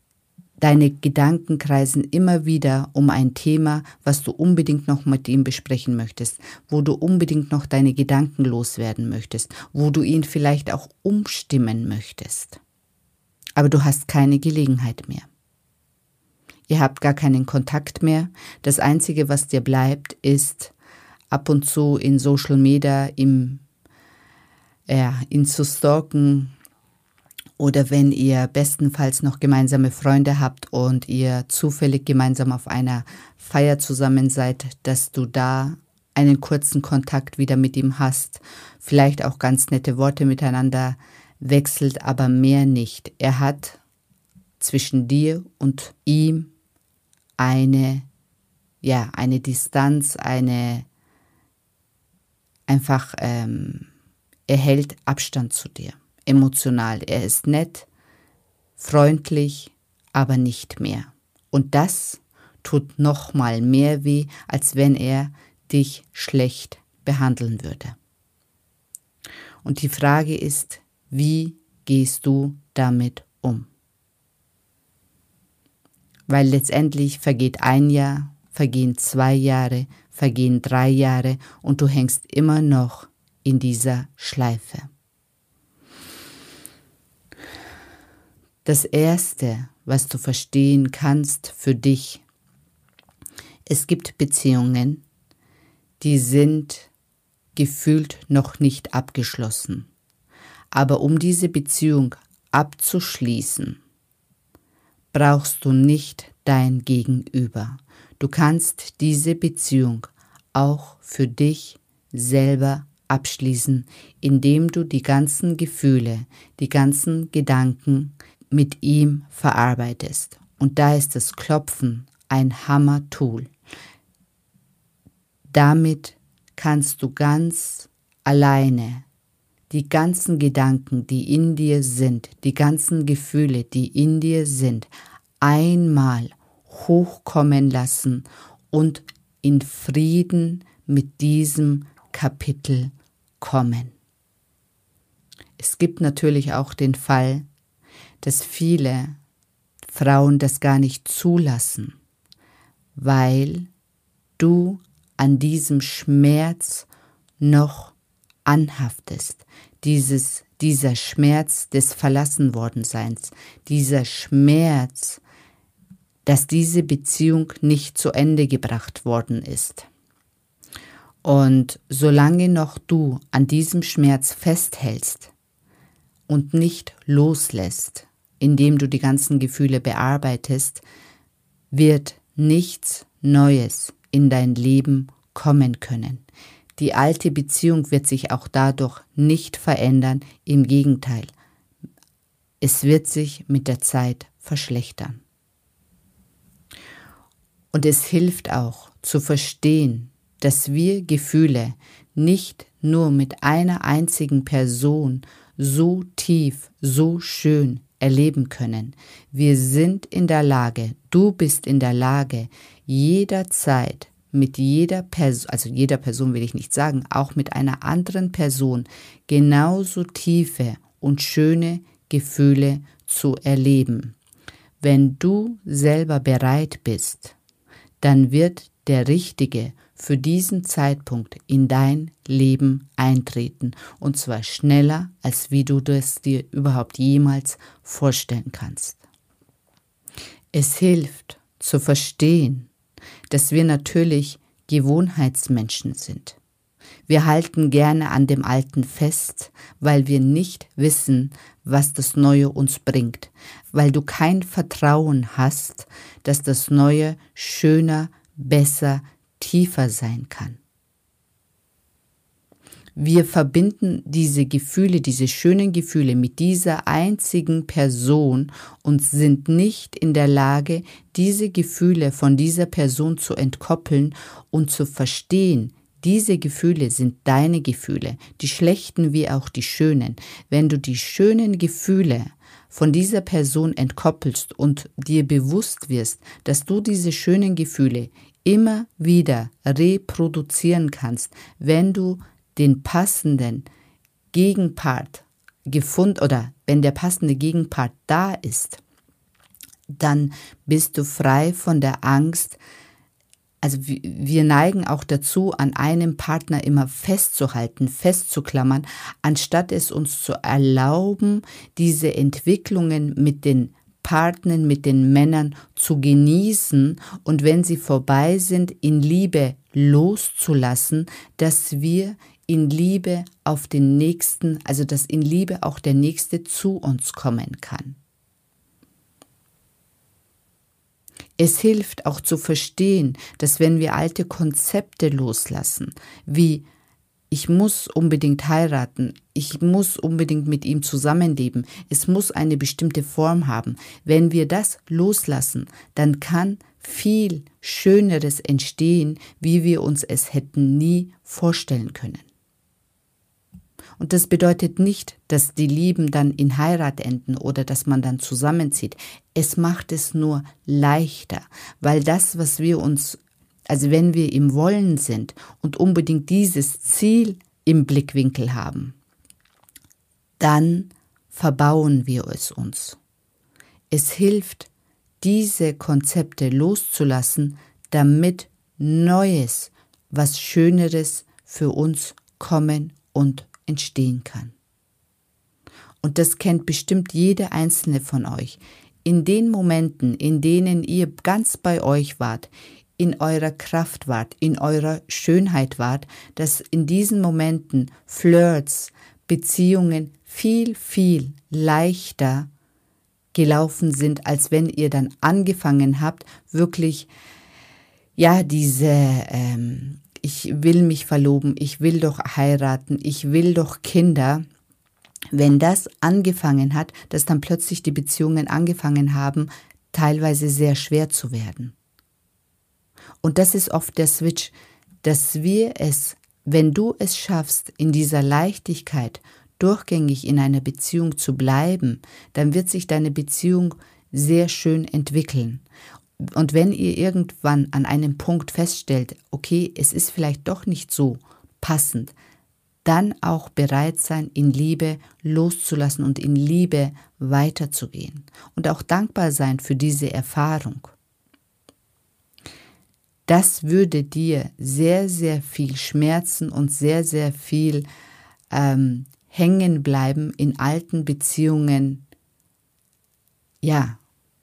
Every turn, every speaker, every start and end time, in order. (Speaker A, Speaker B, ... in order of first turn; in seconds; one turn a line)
Speaker A: 0.6-12.6
Speaker A: 13.6-15.3
Speaker A: 16.7-20.7
Speaker A: 21.3-23.6
Speaker A: 24.9-26.5
Speaker A: 27.6-43.8
Speaker A: 44.6-46.5
Speaker A: 47.4-48.0
Speaker A: 48.8-50.9
Speaker A: 52.7-53.9
Speaker A: 54.5-57.9
Speaker A: 58.8-68.0
Speaker A: 69.6-73.7
Speaker A: 76.3-84.9
Speaker A: 88.6-92.2
Speaker A: 93.7-95.0
Speaker A: 96.0-96.9
Speaker A: 97.5-99.9
Speaker A: 100.7-103.8
Speaker A: 105.1-123.5
Speaker A: 125.5-129.0
Speaker A: 129.7-134.9
Speaker A: 135.4-143.9
Speaker A: 145.6-147.4
Speaker A: 148.2-149.2
Speaker A: 149.9-151.9
Speaker A: 152.9-153.7
Speaker A: 154.4-156.9
Speaker A: 157.4-165.2
Speaker A: 166.2-169.9
Speaker A: 171.2-175.3
Speaker A: 176.3-180.8
Speaker A: 181.7-186.2
Speaker A: 186.8-191.3
Speaker A: 192.6-195.2
Speaker A: 197.7-224.2
Speaker A: 224.8-227.3
Speaker A: 228.0-239.0
Speaker A: 240.5-242.7
Speaker A: 243.3-246.4
Speaker A: 247.1-260.6
Speaker A: 262.9-293.7
Speaker A: 294.3-298.8
Speaker A: 299.9-302.6
Speaker A: 303.6-328.0
Speaker A: 331.4-336.6
Speaker A: 337.3-352.3
Speaker A: 354.0-368.9
Speaker A: 370.4-373.0
Speaker A: 373.9-374.7
Speaker A: 375.2-384.5
Speaker A: 386.0-402.5
Speaker A: 403.3-407.1
Speaker A: 408.1-414.4
Speaker A: 415.3-421.7
Speaker A: 423.2-435.6
Speaker A: 436.2-442.1
Speaker A: 442.8-450.9
Speaker A: 453.2-457.9
Speaker A: 458.5-462.0
Speaker A: 463.6-464.0